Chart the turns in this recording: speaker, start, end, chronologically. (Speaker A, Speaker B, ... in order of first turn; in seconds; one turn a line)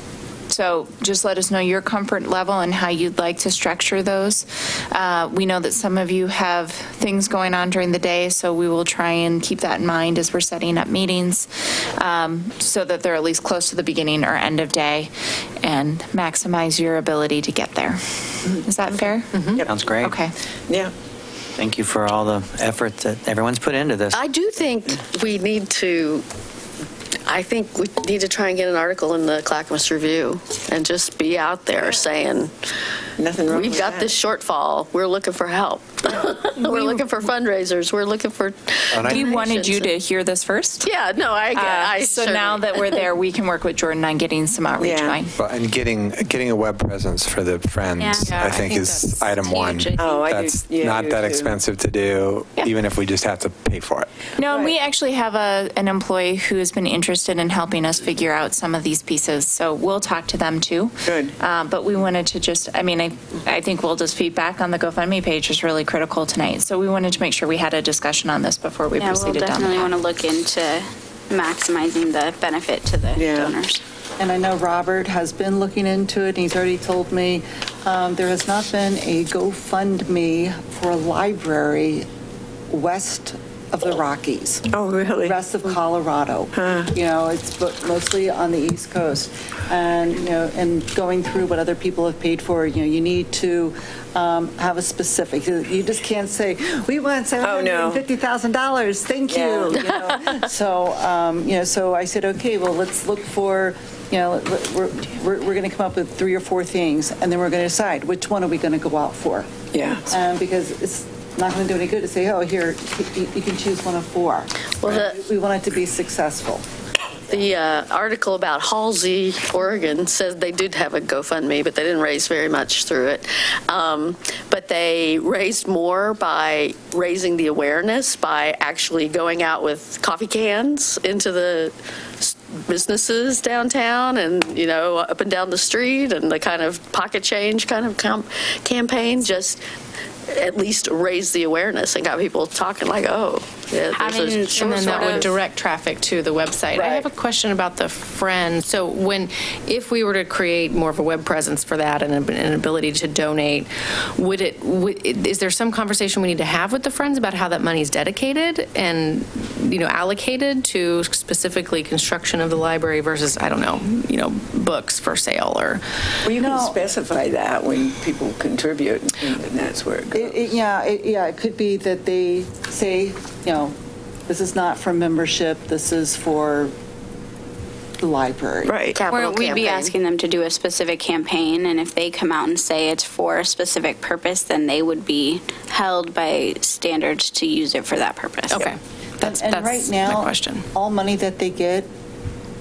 Speaker A: 0.5-19.5
Speaker B: 19.3-19.6
Speaker C: 19.6-20.1
Speaker A: 20.0-20.3
Speaker C: 21.6-24.2
Speaker D: 24.1-26.2
Speaker D: 27.3-32.5
Speaker E: 31.8-32.0
Speaker E: 33.2-34.2
Speaker D: 33.5-39.9
Speaker F: 38.9-39.4
Speaker A: 39.1-40.9
Speaker D: 40.8-43.0
Speaker A: 41.5-45.3
Speaker E: 44.8-45.2
Speaker F: 45.4-54.1
Speaker G: 48.0-48.3
Speaker B: 48.2-50.1
Speaker G: 49.5-50.1
Speaker E: 50.0-51.6
Speaker A: 54.4-69.9
Speaker E: 54.5-54.8
Speaker E: 61.1-61.3
Speaker G: 69.0-73.8
Speaker E: 73.1-73.6
Speaker H: 74.2-82.0
Speaker H: 82.7-84.7
Speaker E: 84.7-85.4
Speaker H: 85.2-109.5
Speaker E: 86.5-86.9
Speaker E: 97.4-98.0
Speaker E: 99.3-99.9
Speaker E: 109.7-110.0
Speaker H: 110.1-116.6
Speaker D: 114.8-115.2
Speaker D: 117.3-139.6
Speaker D: 140.3-145.3
Speaker G: 143.9-145.3
Speaker B: 144.5-165.8
Speaker E: 146.8-147.1
Speaker E: 166.2-170.5
Speaker H: 166.3-166.8
Speaker H: 170.1-173.7
Speaker H: 174.3-176.7
Speaker H: 178.0-178.8
Speaker E: 178.6-179.0
Speaker D: 178.9-179.9
Speaker G: 179.1-188.7
Speaker B: 188.5-190.6
Speaker H: 189.2-191.9